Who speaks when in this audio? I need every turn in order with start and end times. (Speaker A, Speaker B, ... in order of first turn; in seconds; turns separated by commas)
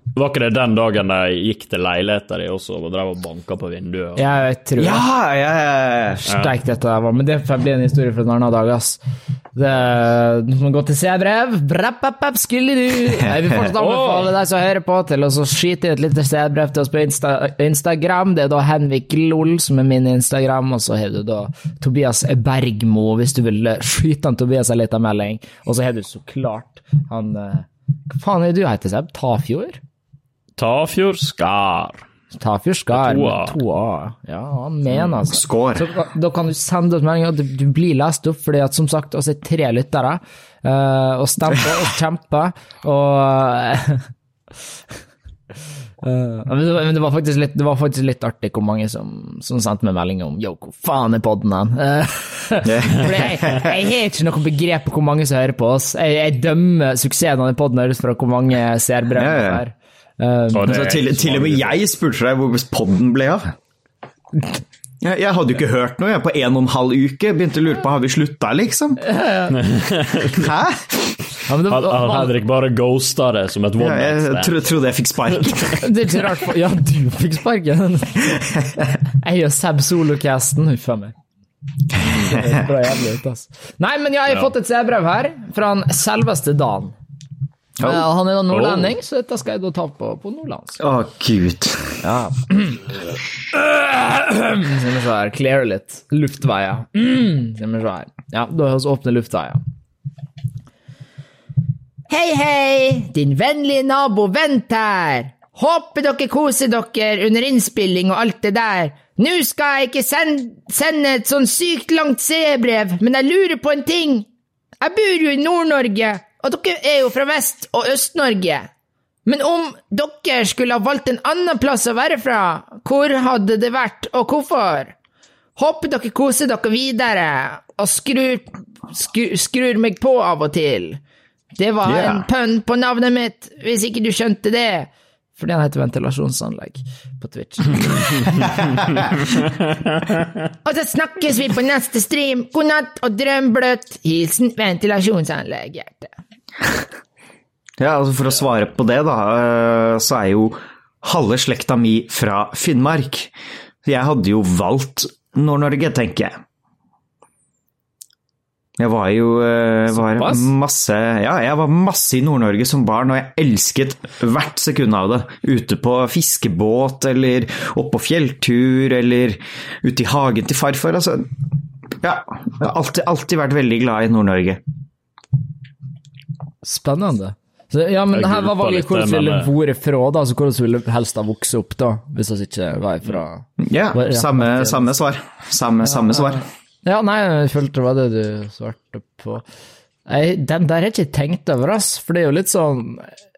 Speaker A: 0.1-4.3, Speaker B: 4.2-5.0, Speaker C: 4.8-6.2, Speaker B: 6.2-9.0, Speaker B: 9.5-29.8, Speaker A: 13.8-14.3, Speaker A: 30.6-32.0, Speaker B: 32.3-44.0, Speaker A: 32.9-33.6, Speaker C: 35.3-35.9, Speaker B: 46.0-60.8, Speaker C: 52.6-53.7, Speaker C: 59.2-59.6, Speaker A: 60.5-61.8, Speaker C: 60.6-63.5, Speaker C: 65.0-69.0, Speaker B: 69.0-69.6, Speaker A: 69.5-70.5, Speaker C: 70.2-71.2, Speaker B: 71.5-72.4, Speaker A: 71.7-74.6, Speaker C: 73.8-75.8, Speaker A: 75.5-75.7, Speaker B: 75.8-78.4, Speaker B: 79.2-81.1, Speaker B: 82.0-86.9, Speaker B: 87.8-90.8, Speaker A: 88.5-88.9, Speaker C: 90.8-92.0, Speaker B: 92.0-92.8, Speaker B: 93.5-99.6, Speaker B: 102.1-114.3, Speaker B: 114.8-118.7, Speaker B: 119.2-124.9, Speaker B: 125.5-131.0, Speaker B: 131.6-138.6, Speaker C: 131.8-132.2, Speaker B: 140.6-146.1, Speaker C: 147.8-153.3, Speaker C: 153.8-156.3, Speaker C: 158.8-171.3, Speaker B: 160.1-160.5, Speaker C: 172.0-174.6, Speaker B: 176.6-184.9, Speaker A: 178.1-179.5, Speaker C: 183.6-186.4, Speaker B: 185.8-189.4, Speaker B: 190.1-193.1